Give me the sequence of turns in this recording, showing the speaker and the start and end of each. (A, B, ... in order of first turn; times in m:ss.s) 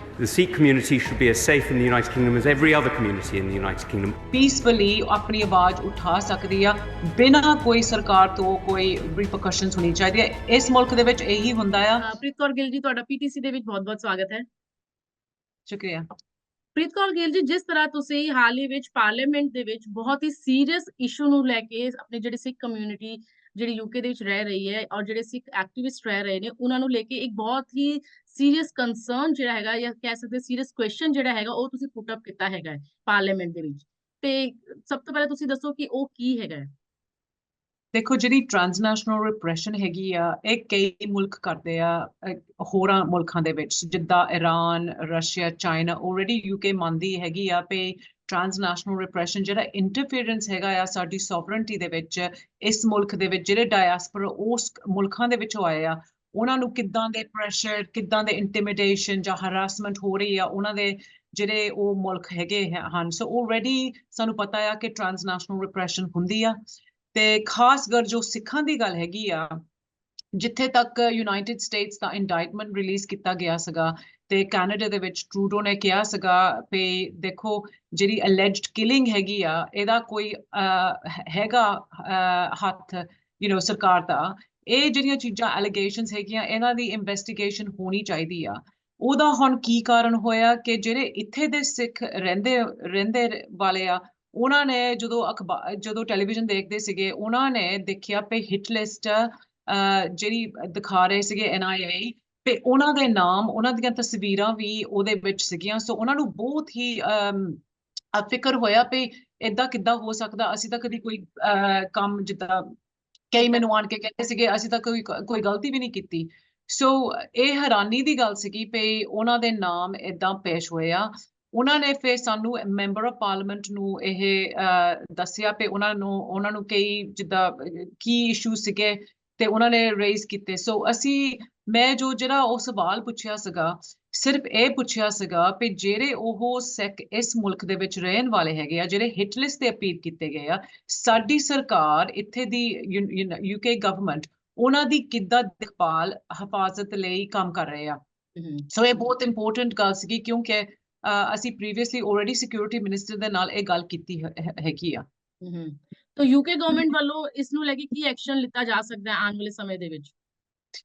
0:00.2-0:04.2 A
0:04.3-0:12.0 B
0:12.0-0:14.4 C
0:15.7-0:16.1 B
0:16.8-0:36.7 C
0:37.9-1:06.6 B
1:07.1-1:09.6 B
1:10.4-1:47.6 B
1:48.1-1:52.8 B
1:53.3-2:28.0 B
2:28.4-2:28.7 C
2:28.7-2:35.0 B
2:35.4-2:40.1 C